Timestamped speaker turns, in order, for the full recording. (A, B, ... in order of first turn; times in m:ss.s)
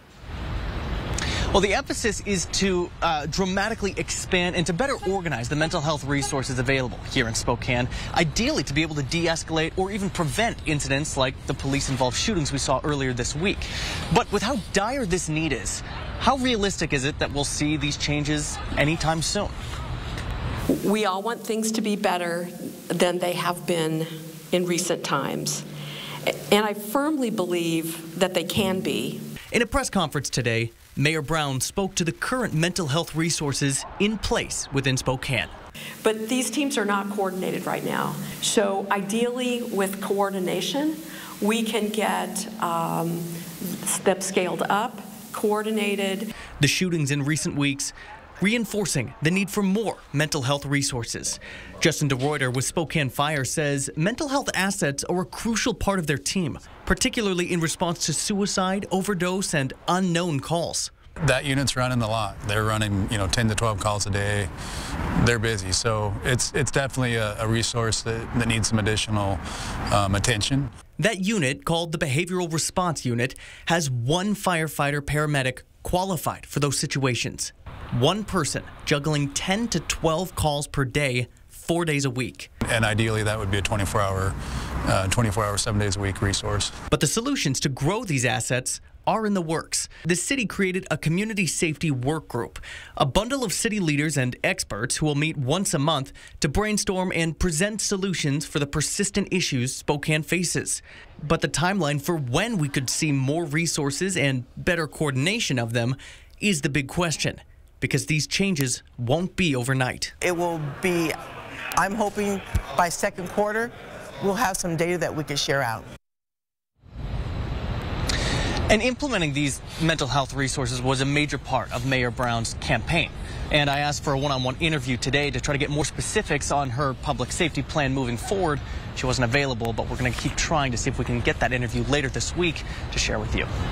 0:01.5-0:19.5 A
0:20.7-0:25.6 B
0:26.2-0:29.2 B
0:29.5-0:35.5 A
0:36.0-0:46.3 B
0:46.6-1:00.9 A
1:01.2-1:04.5 C
1:05.2-1:09.4 C
1:09.9-1:10.7 C
1:11.0-1:22.5 A
1:22.6-1:24.3 C
1:24.9-1:26.7 C
1:26.9-1:50.1 A
1:50.2-1:51.2 D
1:51.8-1:55.8 D
1:58.7-2:13.5 A